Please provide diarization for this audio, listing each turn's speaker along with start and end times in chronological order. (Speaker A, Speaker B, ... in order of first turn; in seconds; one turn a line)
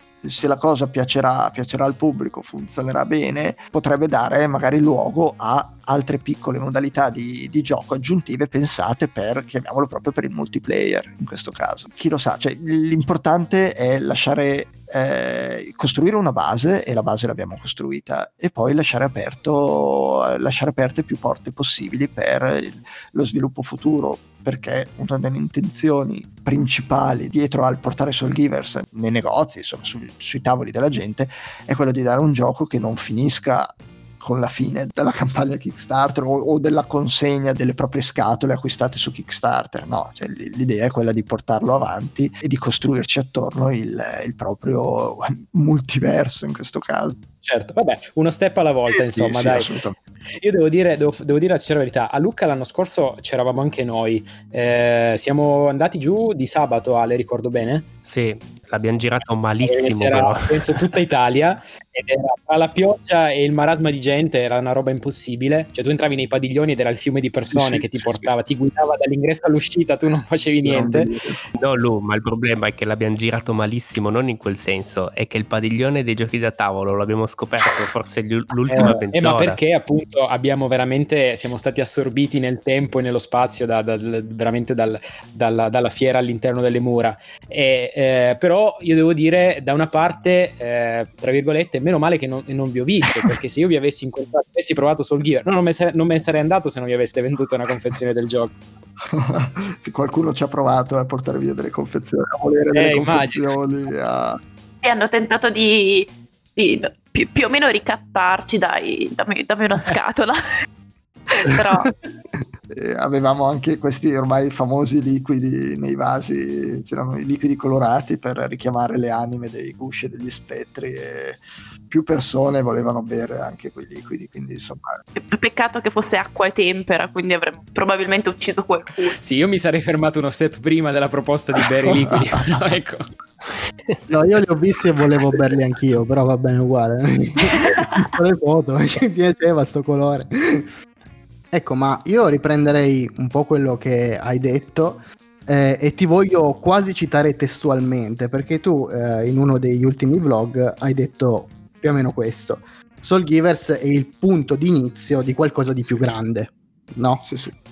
Speaker A: 0.2-47.1
Speaker B: 47.4-49.7
Speaker A: 48.9-50.0
Speaker B: 50.4-57.9
Speaker C: 58.0-60.5
Speaker B: 59.6-71.1
Speaker A: 67.5-68.3
Speaker A: 70.6-71.4
Speaker C: 71.5-79.6
Speaker B: 78.7-98.5
Speaker A: 99.0-104.4
Speaker B: 102.7-103.5
Speaker D: 104.8-110.4
Speaker D: 111.3-111.9
Speaker A: 112.7-125.0
Speaker D: 125.2-129.2
Speaker B: 129.2-133.1
Speaker A: 132.1-132.5
Speaker E: 134.1-140.7
Speaker E: 141.5-157.2
Speaker A: 157.2-157.5